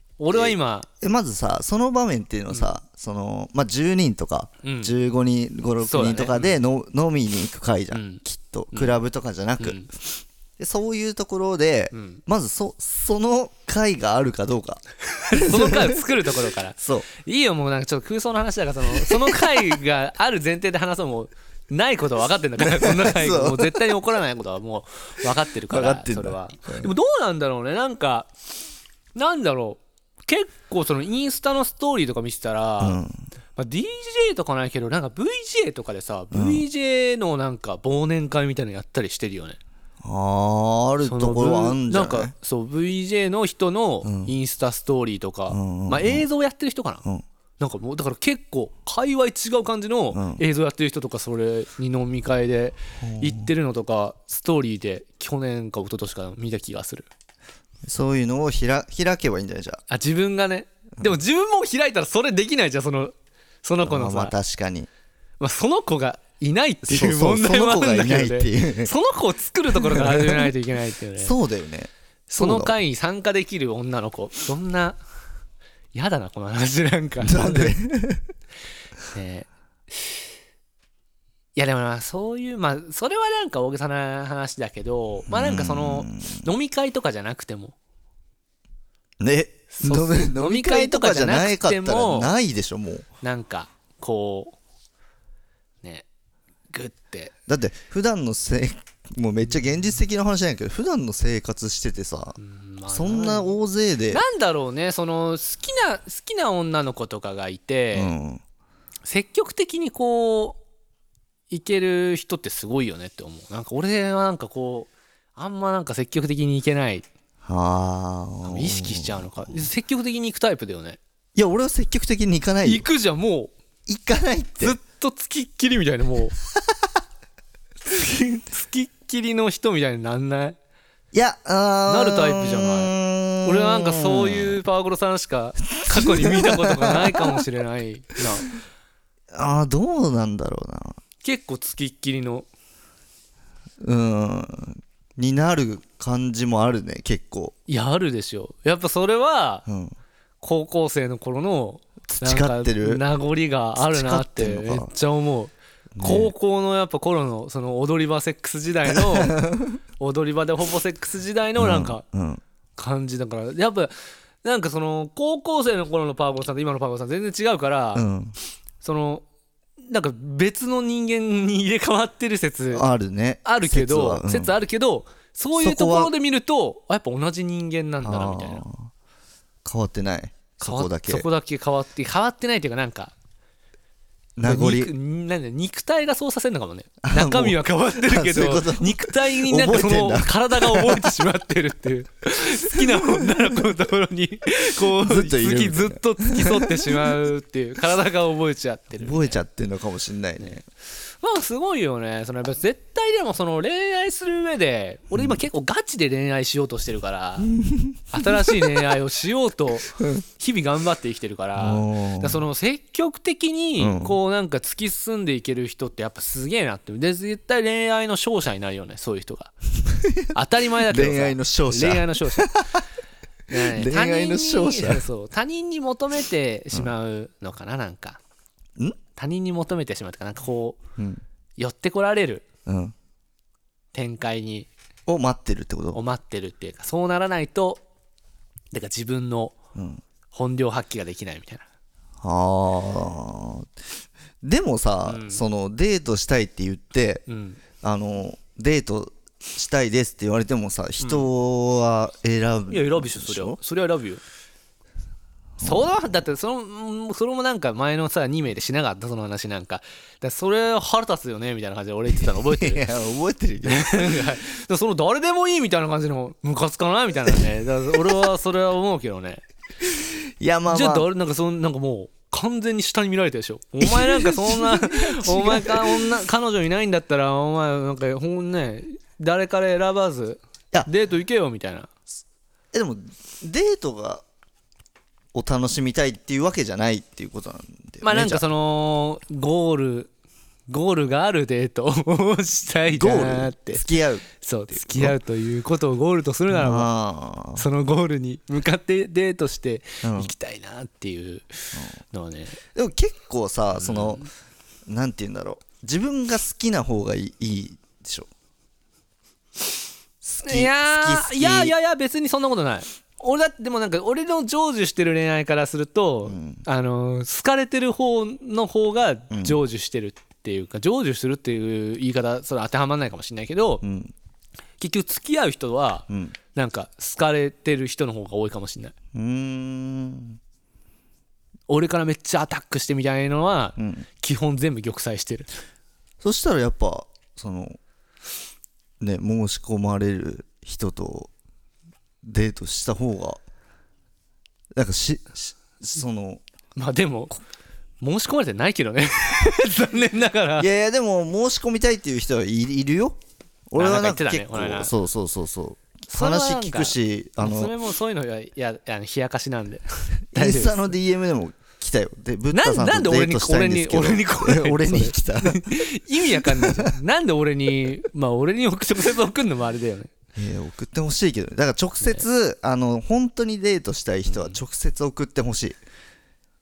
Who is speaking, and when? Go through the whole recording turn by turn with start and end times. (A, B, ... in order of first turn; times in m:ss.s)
0:00.2-0:00.9 A
0:00.3-0:16.1 B
0:04.6-0:04.9 A
0:05.8-0:06.6 A
0:07.9-0:09.0 A
0:09.6-0:09.9 A
0:11.9-0:12.2 A
0:15.3-0:28.3 A
0:16.8-0:17.1 B
0:18.9-0:19.8 B
0:22.6-0:23.8 B
0:25.7-0:26.9 B
0:29.2-0:33.0 A
0:32.8-0:33.2 B
0:33.6-0:39.6 A
0:36.3-0:36.6 B
0:40.0-0:42.3 B
0:41.0-0:47.0 A
0:44.0-0:44.3 B
0:45.5-0:46.2 B
0:47.6-0:57.1 A
0:50.1-0:50.4 B
0:53.0-0:53.5 B
0:57.9-0:59.8 B
0:59.9-1:04.4 A
1:03.8-1:04.9 B
1:05.4-1:11.4 A
1:06.8-1:08.9 B
1:09.7-1:10.5 B
1:11.2-1:12.8 B
1:12.3-1:15.0 A
1:15.9-1:17.8 A
1:17.2-1:18.2 B
1:19.1-1:20.2 A
1:21.6-1:27.8 A
1:25.3-1:26.5 B
1:29.2-1:33.0 B
1:29.7-1:32.4 A
1:33.2-1:34.6 A
1:36.7-1:37.3 A
1:37.5-1:44.2 B
1:42.4-1:43.6 A
1:44.1-1:48.1 A
1:47.9-1:48.4 B
1:49.1-1:50.6 A
1:51.5-1:57.1 A
1:57.4-1:59.7 B
1:58.4-2:01.0 A
2:01.4-2:02.9 B
2:02.6-2:03.5 A
2:03.9-2:04.8 B
2:04.6-2:06.4 A
2:07.8-2:10.6 A
2:11.1-2:14.6 B
2:11.9-2:18.5 A
2:15.8-2:17.5 B
2:19.3-2:21.0 B
2:21.2-2:22.5 A
2:23.8-2:27.5 B
2:27.7-2:29.7 A
2:29.7-2:30.0 B
2:30.4-2:39.4 A
2:32.1-2:33.0 B
2:33.8-2:34.9 B
2:36.0-2:36.3 B
2:38.9-2:39.8 B
2:40.0-2:42.0 A
2:41.6-2:42.4 B
2:42.8-2:48.0 A
2:48.0-2:48.4 B
2:48.8-2:49.3 A
2:49.8-2:52.9 A
2:52.7-2:54.5 B
2:53.4-2:58.6 A
2:55.6-2:56.1 B
2:58.0-2:58.9 B
2:59.6-3:01.3 B
3:00.6-3:03.2 A
3:04.4-3:04.9 B
3:04.4-3:19.4 A
3:07.0-3:11.1 B
3:12.8-3:13.4 B
3:14.8-3:17.1 B
3:19.0-3:20.6 B
3:21.2-3:27.5 A
3:25.1-3:25.4 B
3:27.4-3:29.0 B
3:28.1-3:39.5 A
3:31.6-3:32.4 B
3:33.8-3:34.2 B
3:39.9-3:42.7 B
3:40.3-3:42.5 A
3:43.5-3:45.0 B
3:43.5-3:48.2 A
3:49.2-3:50.8 A
3:51.0-3:51.2 B
3:51.6-3:52.5 A
3:52.7-3:52.9 B
3:53.9-3:54.7 A
3:55.1-3:56.0 B
3:55.9-3:57.8 A
3:58.7-3:59.6 A
3:59.8-4:00.0 B
4:00.3-4:01.6 A
4:02.2-4:03.7 B
4:04.4-4:07.2 B
4:05.0-4:05.4 A
4:07.3-4:07.6 A
4:07.8-4:13.6 B
4:11.0-4:11.3 A
4:12.7-4:14.2 A
4:15.6-4:16.2 B
4:15.6-4:22.9 A
4:22.5-4:24.1 B
4:23.6-4:29.4 A
4:29.8-4:31.1 B
4:30.7-4:41.9 A
4:33.8-4:36.2 B
4:42.7-4:44.2 B
4:45.3-4:48.4 B
4:48.0-4:50.1 A
4:50.7-4:56.9 A
4:52.9-4:55.2 B
4:56.5-4:57.7 B
4:57.6-5:02.6 A
5:00.0-5:00.3 B
5:02.7-5:04.3 B
5:03.7-5:04.3 A
5:04.9-5:08.3 B
5:10.2-5:11.8 B
5:10.4-5:23.8 A
5:16.3-5:16.6 B
5:19.3-5:19.6 B
5:23.8-5:24.1 B
5:24.8-5:28.9 A
5:26.1-5:26.4 B
5:29.1-5:30.4 B
5:31.7-5:35.5 A
5:33.8-5:34.0 B
5:36.2-5:37.8 B
5:39.0-5:41.3 B
5:42.2-5:43.4 B
5:44.8-5:46.4 B
5:46.8-5:47.4 A
5:48.0-5:50.7 A
5:50.6-5:53.2 B
5:53.7-5:57.8 B
5:53.8-5:54.9 A
5:56.1-6:01.0 A
6:00.3-6:06.9 B
6:02.5-6:10.1 A
6:10.4-6:15.8 B
6:14.3-6:14.6 A